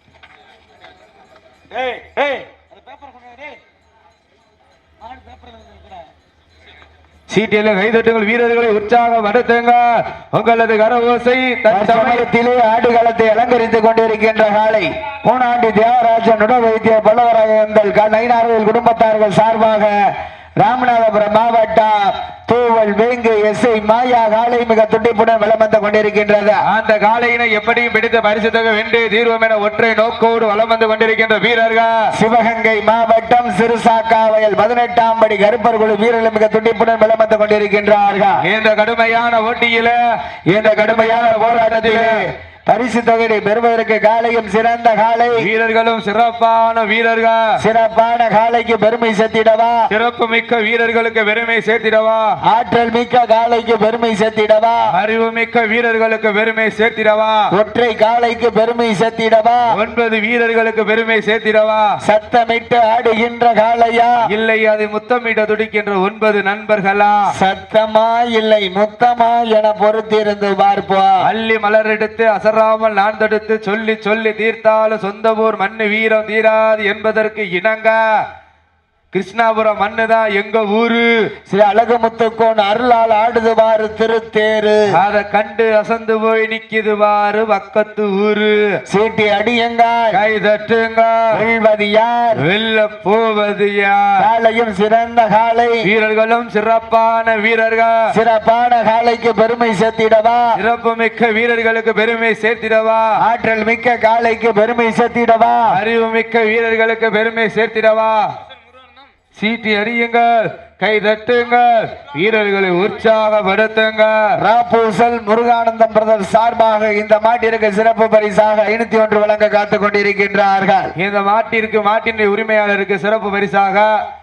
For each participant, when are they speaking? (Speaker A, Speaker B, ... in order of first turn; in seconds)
Speaker A: 2.1-2.4, 7.3-12.3, 26.6-31.9, 38.4-40.0, 40.5-42.2, 45.4-47.5, 49.9-52.3, 54.9-57.5, 59.7-61.9, 64.3-67.2, 71.2-78.0, 79.1-81.1, 84.9-88.6, 90.1-91.4, 92.4-94.2, 95.8-98.0, 100.6-103.1, 105.7-108.3, 109.3-114.2, 121.0-123.9
Speaker B: 11.7-19.9, 20.6-26.6, 32.1-38.4, 40.5-45.5, 47.6-49.9, 52.5-54.8, 57.5-59.7, 62.0-64.1, 67.3-71.2, 81.5-84.8, 88.9-90.2, 91.3-92.4, 94.2-95.8, 98.1-100.5, 103.2-105.7, 114.4-120.9